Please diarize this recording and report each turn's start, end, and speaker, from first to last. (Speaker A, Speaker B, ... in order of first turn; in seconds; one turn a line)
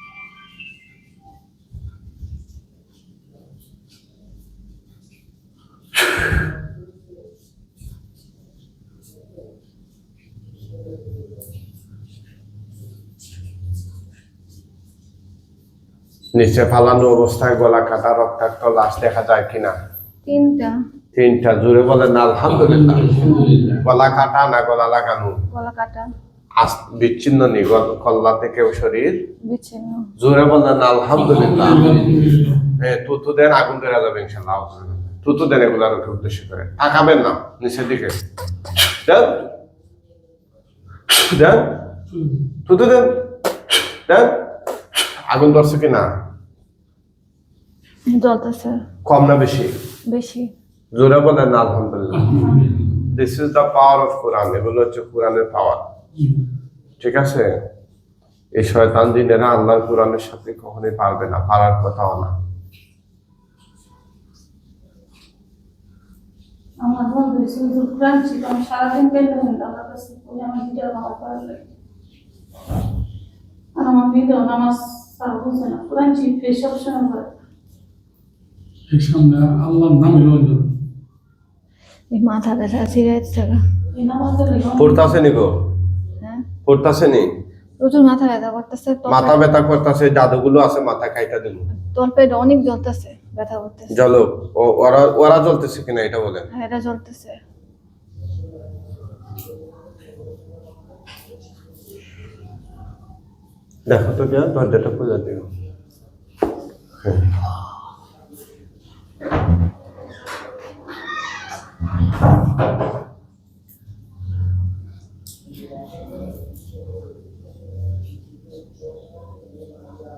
Speaker A: 16.4-19.8
Speaker B: 20.3-20.8
Speaker A: 21.1-23.3
Speaker C: 22.5-23.8
Speaker A: 23.8-25.4
Speaker B: 25.5-26.1
Speaker A: 26.6-29.2
Speaker B: 29.4-30.1
Speaker A: 30.2-31.9
Speaker D: 31.1-32.8
Speaker C: 31.3-32.5
Speaker A: 32.8-38.2
Speaker A: 39.0-39.5
Speaker A: 41.3-41.8
Speaker D: 42.1-42.4
Speaker A: 42.7-43.3
Speaker A: 45.3-46.1
Speaker B: 48.1-48.8
Speaker A: 49.0-49.7
Speaker B: 50.1-50.5
Speaker A: 50.9-52.4
Speaker D: 52.1-53.1
Speaker A: 53.1-55.9
Speaker D: 56.2-56.5
Speaker A: 57.0-57.5
Speaker A: 58.5-62.4
Speaker E: 66.8-71.7
Speaker E: 73.8-77.3
Speaker D: 78.9-80.7
Speaker B: 82.1-83.6
Speaker E: 83.9-85.1
Speaker A: 84.8-85.5
Speaker A: 86.7-87.3
Speaker B: 87.8-89.4
Speaker A: 89.1-91.7
Speaker B: 91.9-93.9
Speaker A: 93.9-96.5
Speaker B: 96.5-97.4
Speaker A: 103.9-105.5
Speaker A: 107.0-107.3